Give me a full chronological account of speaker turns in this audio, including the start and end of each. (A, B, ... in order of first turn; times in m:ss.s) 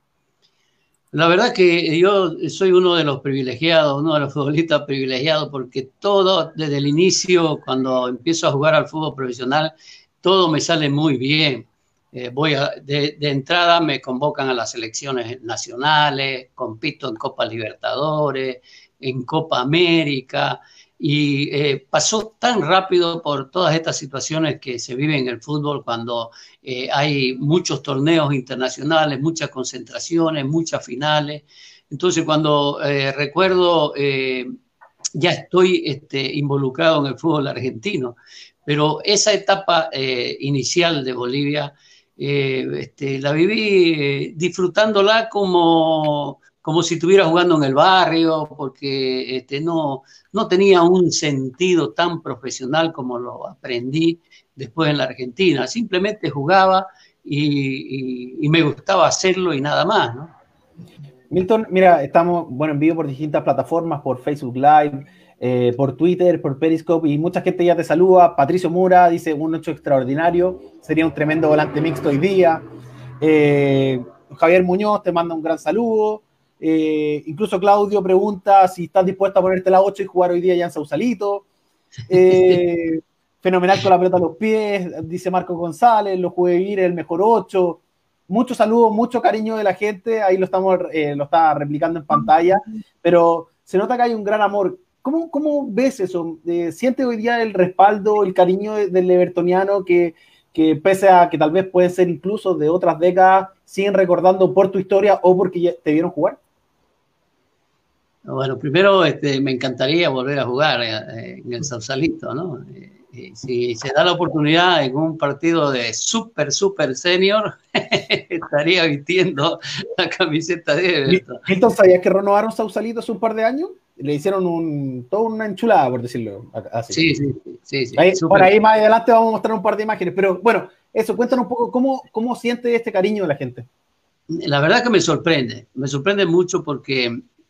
0:01.1-0:34.5 A
0:35.1-1:00.3 A
1:01.3-1:12.6 B
1:13.2-1:21.4 B
1:22.1-1:46.4 B
1:48.2-2:01.4 A
2:01.1-2:07.0 B
2:06.9-2:08.5 A
2:08.0-2:13.7 B
2:14.3-2:17.2 A